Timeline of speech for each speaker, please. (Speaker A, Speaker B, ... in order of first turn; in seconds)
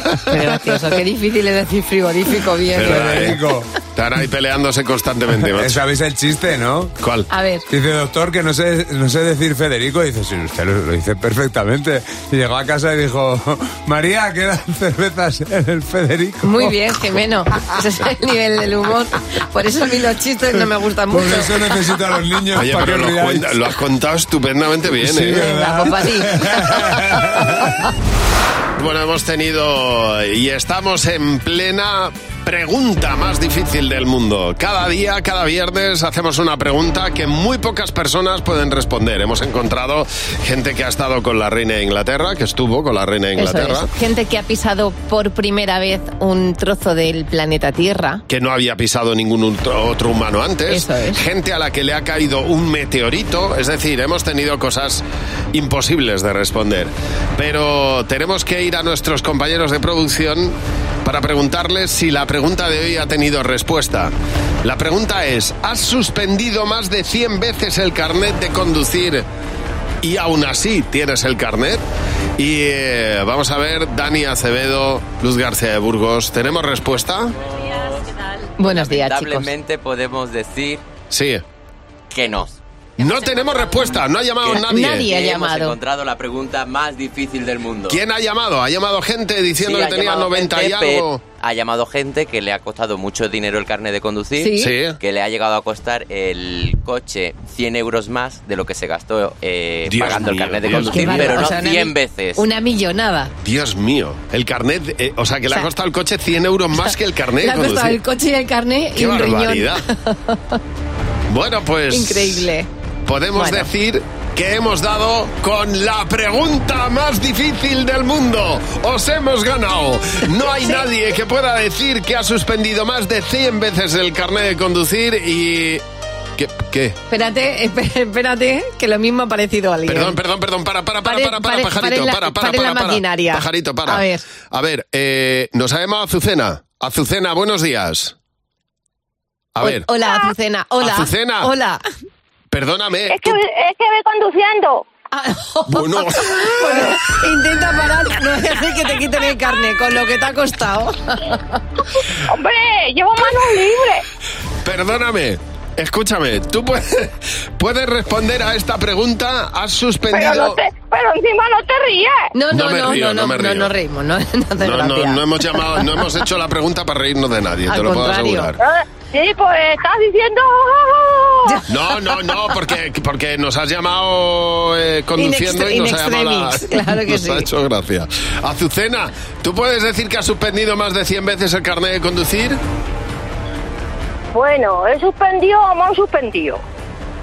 Speaker A: 0.3-3.3, 7.3-7.6, 16.4-21.8, 25.4-27.7, 43.4-48.2, 50.7-51.2, 78.6-79.5, 84.5-85.7, 94.4-94.7, 100.7-103.3, 106.8-110.6, 111.9-112.7, 113.3-113.7, 127.1-130.2, 131.0-134.2, 139.6-141.8, 145.1-151.4, 162.3-165.8, 167.7-168.5, 171.5-172.2, 175.2-177.5
Speaker B: 2.7-3.4, 3.9-5.8, 7.0-7.3, 22.5-25.5, 28.8-43.9, 48.3-64.1, 64.6-69.2, 70.0-71.8, 72.4-77.3, 81.1-81.4, 83.0-85.1, 87.9-91.2, 94.5-95.0, 99.8-101.5, 103.4-108.0, 109.0-109.8, 111.3-112.5, 113.1-125.8, 126.4-127.0, 129.9-138.1, 139.6-139.9, 140.8-141.5, 142.5-143.4, 145.7-146.5, 154.6-160.6, 162.5-163.7, 164.6-168.6, 171.7-182.6
Speaker C: 2.8-3.7, 5.5-6.9, 7.7-16.9, 21.1-23.6, 25.0-27.7
Speaker D: 77.6-78.0, 78.6-80.8, 82.1-82.6, 84.5-88.0, 89.6-102.4
Speaker E: 143.1-144.8, 152.3-154.0, 160.1-162.2, 168.6-171.6, 184.3-186.6